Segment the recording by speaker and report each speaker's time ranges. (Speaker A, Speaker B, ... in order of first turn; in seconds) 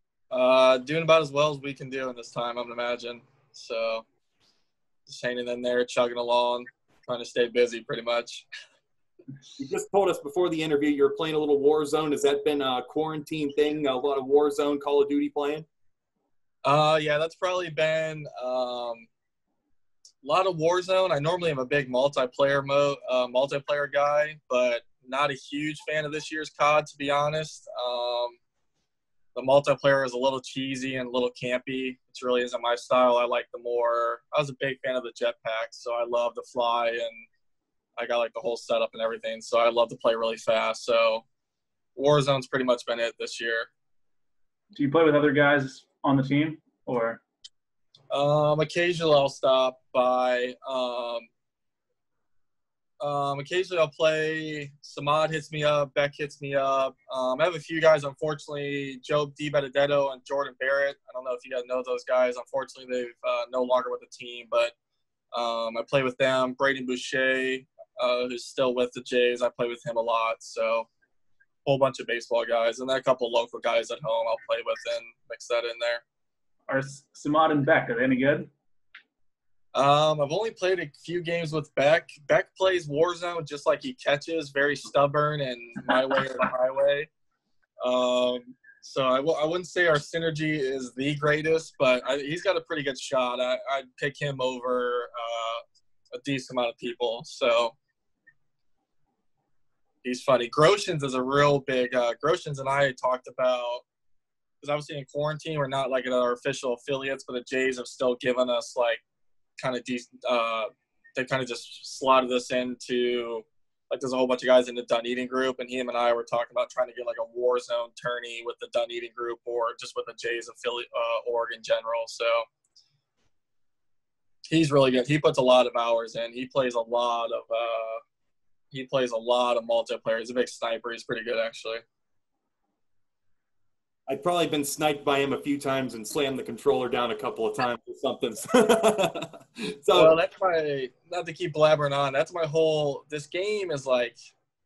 Speaker A: 0.3-4.0, 5.0-8.4, 16.6-19.1, 20.2-28.4, 29.3-37.2, 38.0-41.2, 41.9-43.7, 48.1-51.3, 53.0-64.7, 65.3-70.9, 71.6-76.0, 79.7-87.1, 87.8-97.7, 100.0-103.8, 104.6-109.0, 109.6-122.4, 124.5-128.0, 128.7-131.8, 139.9-144.2
Speaker B: 9.6-15.7, 134.1-140.1
Speaker C: 44.7-47.2, 76.7-78.5